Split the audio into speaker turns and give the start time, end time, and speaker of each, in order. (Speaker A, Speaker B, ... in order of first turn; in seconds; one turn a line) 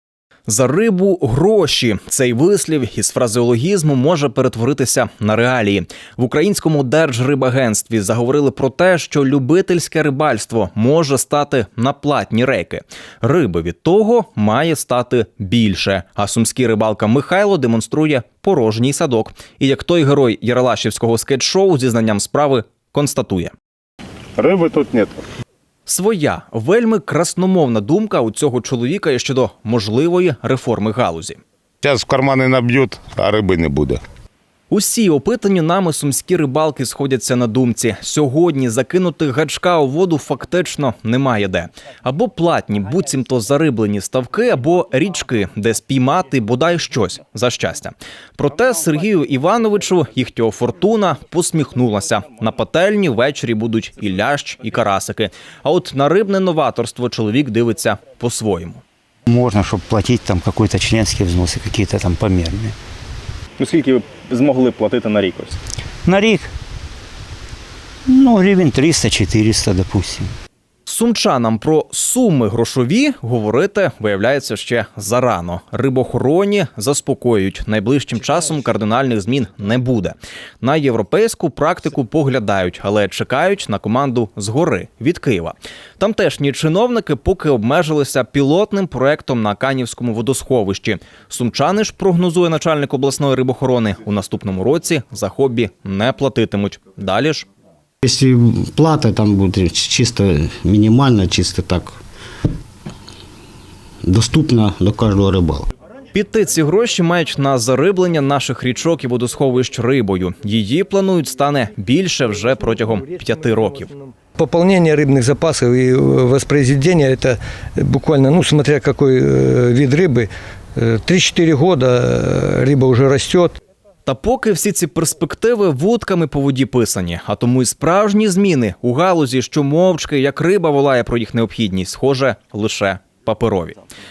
Speaker A: 0.5-23.5
Speaker B: 24.4-25.2
Speaker A: 25.9-31.4
Speaker B: 31.8-34.0
Speaker A: 34.7-58.8
Speaker C: 59.3-62.8
Speaker D: 63.6-65.6
Speaker C: 66.1-66.5
Speaker C: 68.1-70.3
Speaker A: 70.9-97.5
Speaker E: 98.0-102.0
Speaker E: 104.0-105.7
Speaker A: 106.1-113.9
Speaker F: 114.3-123.5
Speaker A: 124.1-133.8